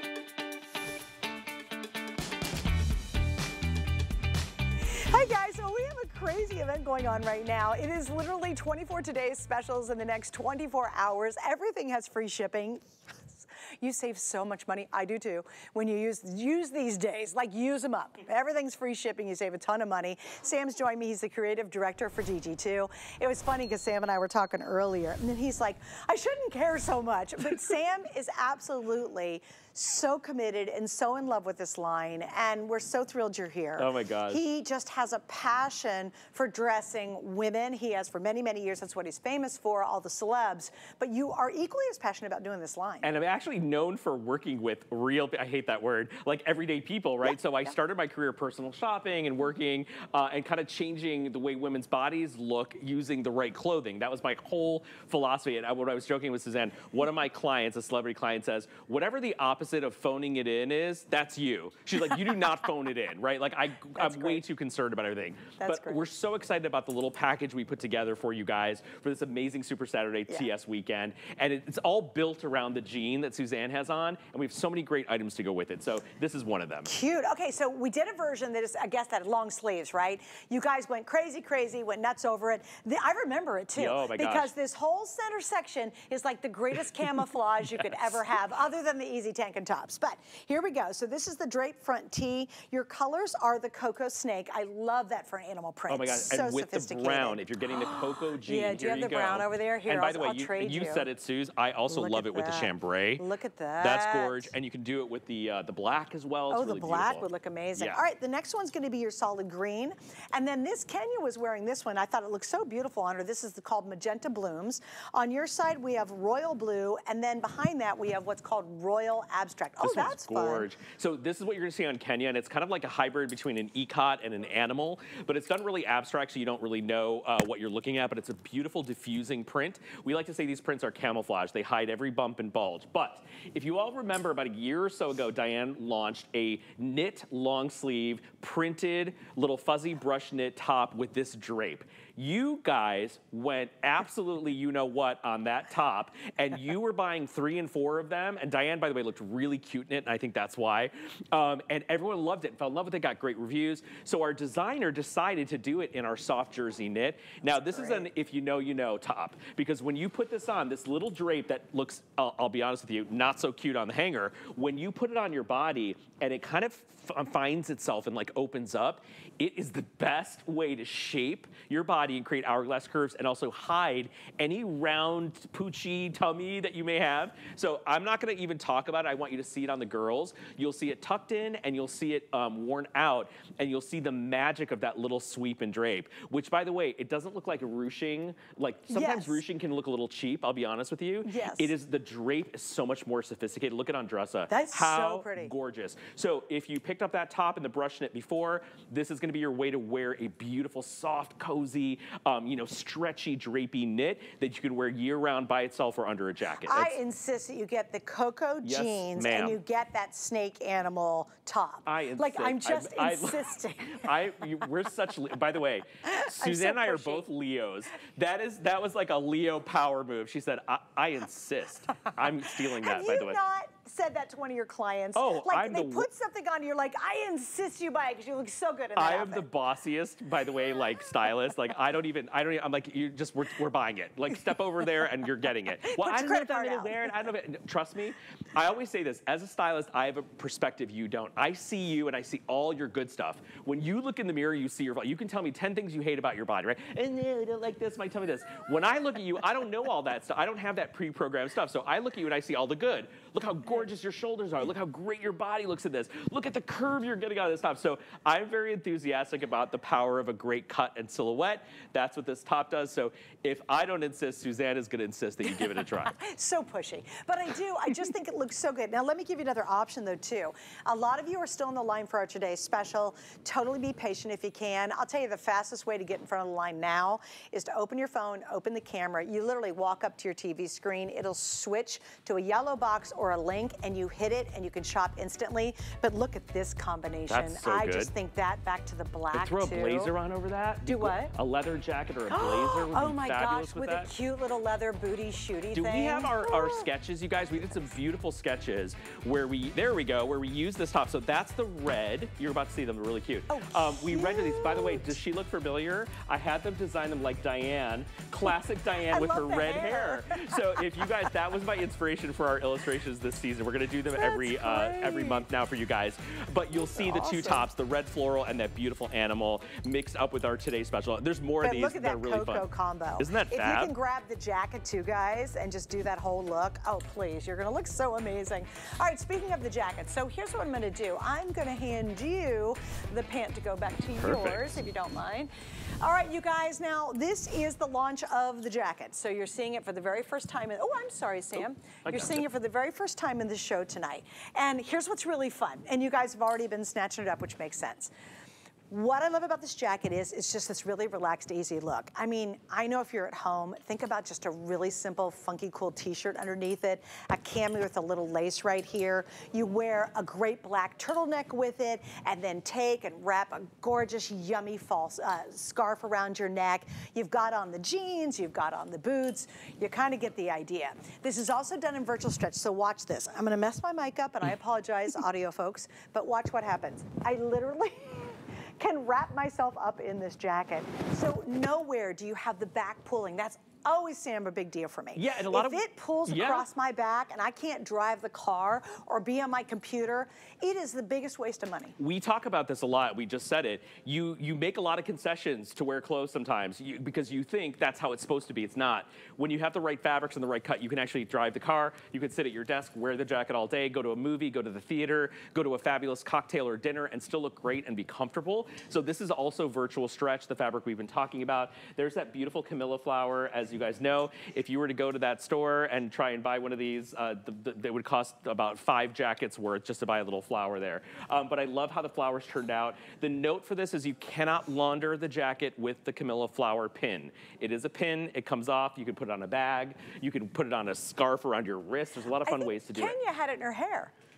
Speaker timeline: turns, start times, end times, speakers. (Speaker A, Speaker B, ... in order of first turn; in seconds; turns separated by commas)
Speaker A: 4.9-43.1, Speaker B: 33.8-34.4, Speaker B: 43.0-76.9, Speaker A: 64.0-64.4, Speaker A: 65.6-66.0, Speaker A: 76.8-101.1, Speaker B: 83.8-84.5, Speaker B: 95.9-103.2, Speaker A: 101.9-104.5, Speaker B: 103.8-108.0, Speaker A: 106.5-120.7, Speaker B: 119.8-207.0, Speaker A: 188.9-189.4, Speaker A: 191.2-191.7, Speaker A: 194.5-195.5, Speaker A: 206.7-214.1, Speaker B: 208.6-209.6, Speaker B: 211.8-223.4, Speaker A: 216.1-217.2, Speaker A: 222.7-229.4, Speaker B: 225.1-226.1, Speaker B: 228.9-266.1, Speaker A: 235.8-237.2, Speaker A: 265.8-290.1, Speaker B: 287.3-288.1, Speaker B: 289.3-294.1, Speaker A: 290.9-291.3, Speaker A: 292.3-296.9, Speaker B: 295.7-322.6, Speaker A: 303.5-305.1, Speaker A: 309.1-311.0, Speaker A: 314.1-315.4, Speaker A: 316.9-317.6, Speaker A: 321.6-335.5, Speaker B: 323.2-323.9, Speaker B: 334.2-334.8, Speaker A: 336.0-348.1, Speaker B: 342.1-342.4, Speaker A: 348.9-392.0, Speaker B: 385.1-386.7, Speaker B: 392.0-433.2, Speaker A: 432.4-434.1